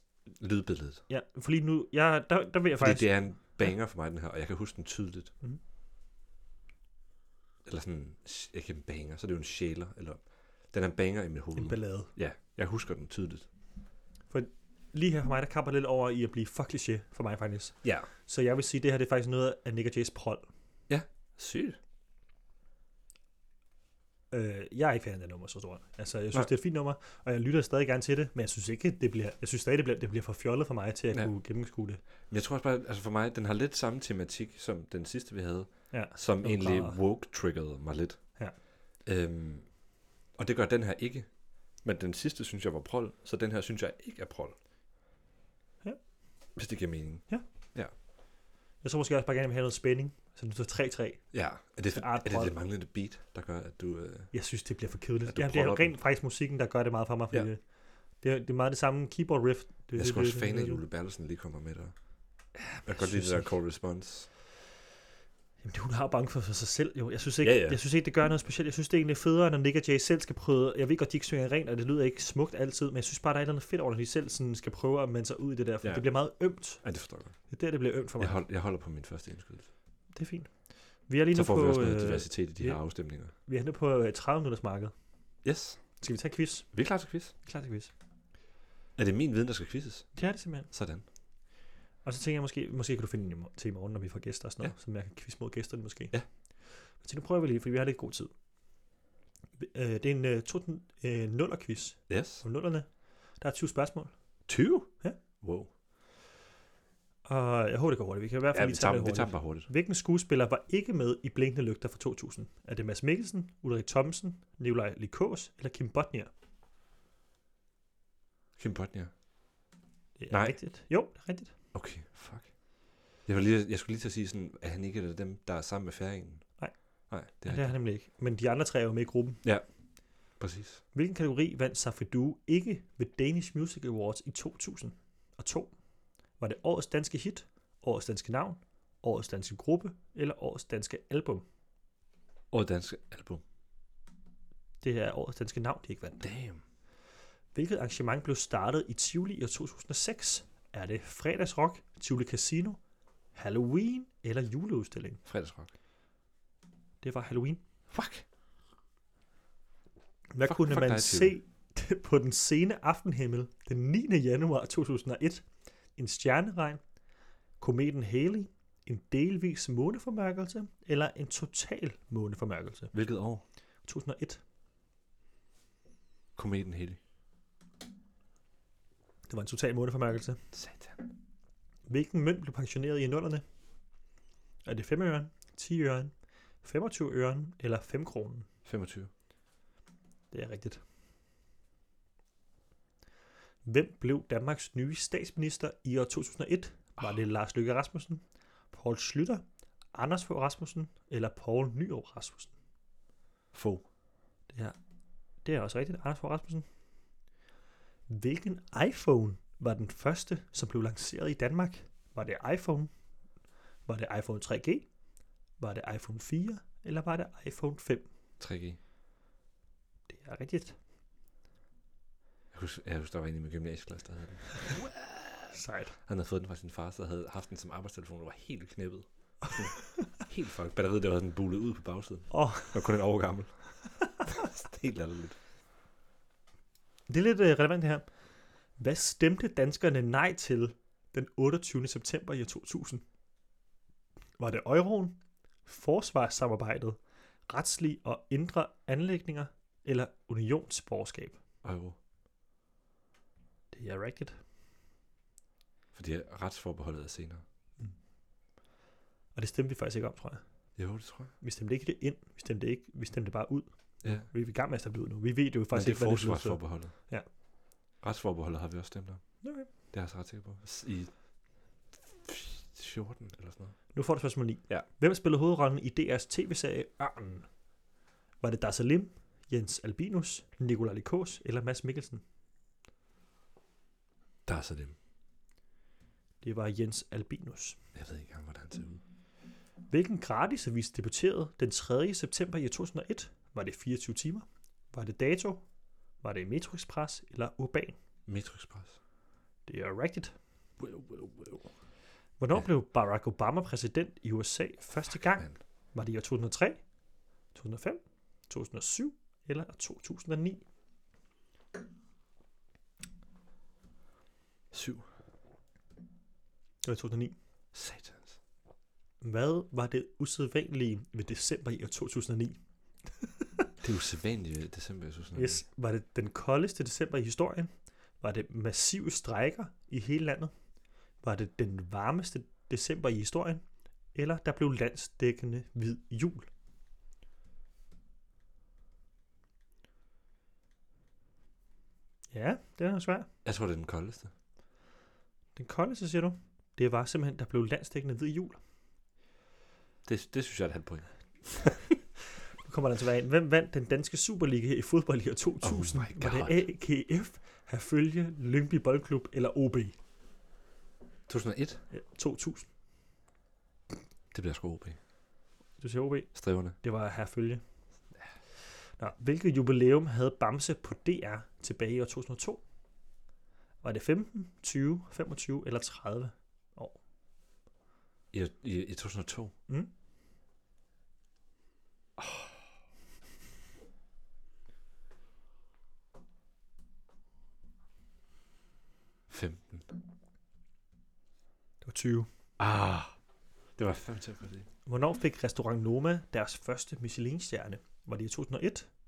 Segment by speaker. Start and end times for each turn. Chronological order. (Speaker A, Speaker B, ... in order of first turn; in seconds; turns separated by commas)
Speaker A: 0.4-1.0, Speaker B: 1.1-3.5, Speaker A: 2.8-5.3, Speaker A: 7.7-13.5, Speaker B: 11.6-12.1, Speaker B: 14.3-20.5, Speaker A: 17.8-18.1, Speaker A: 20.9-21.8, Speaker B: 24.3-32.0, Speaker A: 32.3-38.3, Speaker B: 35.9-37.0, Speaker A: 39.0-39.7, Speaker A: 40.4-41.3, Speaker A: 41.8-44.6, Speaker A: 46.6-47.9, Speaker B: 48.8-51.2, Speaker A: 51.3-54.3, Speaker B: 51.9-52.6, Speaker B: 54.3-57.6, Speaker A: 55.3-56.0, Speaker B: 58.2-60.8, Speaker A: 59.9-62.0, Speaker B: 62.6-63.5, Speaker A: 62.8-64.3, Speaker B: 65.6-76.9, Speaker A: 67.4-67.8, Speaker A: 75.8-76.1, Speaker A: 76.7-77.4, Speaker B: 77.5-78.4, Speaker A: 78.2-79.7, Speaker B: 80.1-84.9, Speaker A: 81.3-83.3, Speaker A: 85.4-85.8, Speaker B: 86.0-86.7, Speaker A: 86.7-87.3, Speaker B: 87.4-87.9, Speaker A: 89.0-90.1, Speaker B: 90.2-90.7, Speaker A: 90.7-91.0, Speaker B: 92.0-96.2, Speaker B: 96.7-98.3, Speaker B: 99.6-104.1, Speaker A: 102.1-102.4, Speaker A: 104.5-105.7, Speaker B: 107.3-116.3, Speaker A: 108.5-109.7, Speaker A: 118.6-119.1, Speaker B: 120.2-121.5, Speaker A: 120.3-120.6, Speaker A: 121.7-122.5, Speaker A: 123.3-126.5, Speaker A: 127.1-127.8, Speaker B: 127.3-129.4, Speaker A: 130.4-130.8, Speaker B: 130.9-135.7, Speaker B: 136.4-141.4, Speaker A: 142.5-143.4, Speaker B: 144.8-146.3, Speaker A: 146.2-146.6, Speaker B: 147.6-152.8, Speaker B: 153.3-155.2, Speaker A: 155.3-155.7, Speaker B: 157.0-157.6, Speaker A: 157.9-158.2, Speaker B: 160.3-165.4, Speaker A: 160.4-161.4, Speaker B: 166.0-166.8, Speaker B: 167.6-172.9, Speaker A: 172.9-173.4, Speaker B: 173.8-174.4, Speaker A: 176.4-177.0, Speaker B: 179.3-180.4, Speaker A: 180.5-181.0, Speaker B: 181.9-183.4, Speaker B: 184.7-188.5, Speaker A: 188.7-189.1, Speaker B: 190.3-190.8, Speaker B: 193.7-202.5, Speaker A: 203.5-203.8, Speaker B: 204.5-204.8, Speaker B: 205.4-206.7, Speaker B: 208.1-212.9, Speaker B: 213.9-214.9, Speaker B: 215.6-218.1, Speaker A: 218.4-218.8, Speaker B: 220.1-220.8, Speaker A: 222.5-233.5, Speaker B: 225.5-225.9, Speaker B: 232.3-232.8, Speaker A: 234.2-235.4, Speaker B: 237.1-238.1, Speaker B: 238.8-243.0, Speaker B: 244.4-251.4, Speaker A: 251.6-252.0, Speaker B: 253.7-254.4, Speaker A: 255.9-257.4, Speaker B: 259.4-260.4, Speaker A: 260.8-261.3, Speaker B: 261.4-267.3, Speaker A: 264.0-264.3, Speaker A: 265.7-266.9, Speaker A: 268.0-269.2, Speaker B: 269.4-269.7, Speaker A: 269.9-271.1, Speaker A: 272.0-273.8, Speaker B: 273.9-277.5, Speaker B: 278.4-282.2, Speaker A: 284.5-284.9, Speaker B: 286.4-287.8, Speaker A: 287.9-289.0, Speaker B: 289.9-295.6, Speaker B: 296.2-297.9, Speaker A: 298.3-299.0, Speaker B: 299.7-300.3, Speaker A: 300.8-301.6, Speaker B: 302.4-306.8, Speaker B: 307.5-310.6, Speaker A: 314.7-315.1, Speaker B: 316.8-317.4, Speaker A: 317.7-318.4, Speaker B: 319.2-322.6, Speaker A: 323.8-325.6, Speaker B: 325.4-330.5, Speaker B: 331.2-336.5, Speaker B: 342.3-343.3, Speaker A: 343.4-344.3, Speaker B: 345.6-348.6, Speaker A: 350.1-351.8, Speaker B: 352.6-360.0, Speaker A: 355.6-356.6, Speaker A: 361.3-361.8, Speaker B: 361.9-362.7, Speaker A: 364.3-365.0, Speaker B: 365.8-367.6, Speaker A: 366.4-366.8, Speaker B: 369.0-372.6, Speaker B: 373.8-377.0, Speaker A: 378.3-379.5, Speaker A: 382.2-382.4, Speaker A: 389.3-389.9, Speaker B: 391.8-392.3, Speaker A: 392.6-393.1, Speaker A: 393.8-394.7, Speaker B: 394.9-398.9